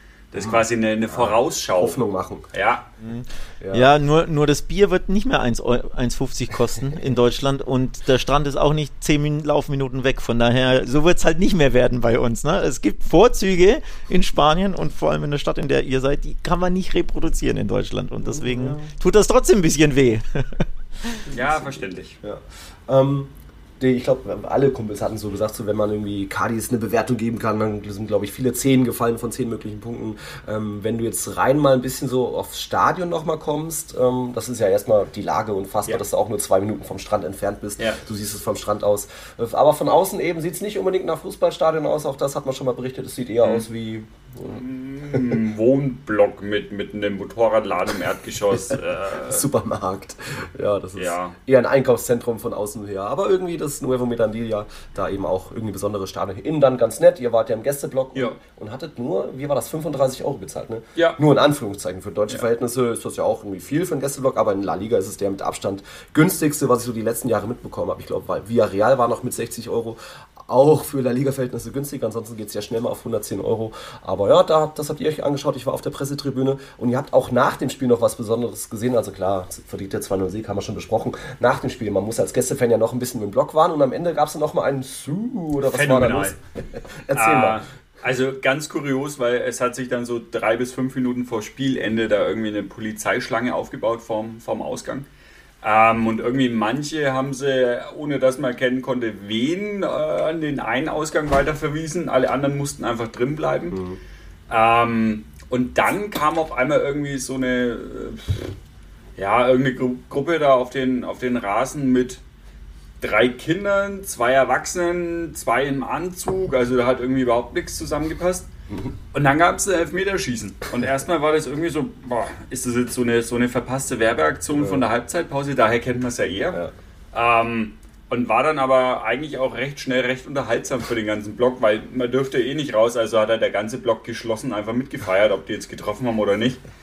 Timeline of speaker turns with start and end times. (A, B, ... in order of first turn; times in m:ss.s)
0:00.3-0:02.0 A
0:00.4-0:02.5 B
0:02.5-0:02.8 A
0:03.0-0:21.2 C
0:03.6-0:03.9 B
0:18.2-0:18.8 B
0:21.3-0:44.6 B
0:21.3-0:22.2 A
0:44.4-0:49.4 A
0:49.2-1:27.6 B
0:51.0-0:51.3 A
1:25.6-1:26.4 A
1:27.1-1:35.1 A
1:35.6-1:43.8 A
1:43.7-1:44.0 B
1:44.5-1:48.5 A
1:49.2-1:52.2 A
1:53.0-1:58.5 A
1:59.1-2:06.6 A
2:04.5-2:04.9 B
2:07.1-2:16.6 A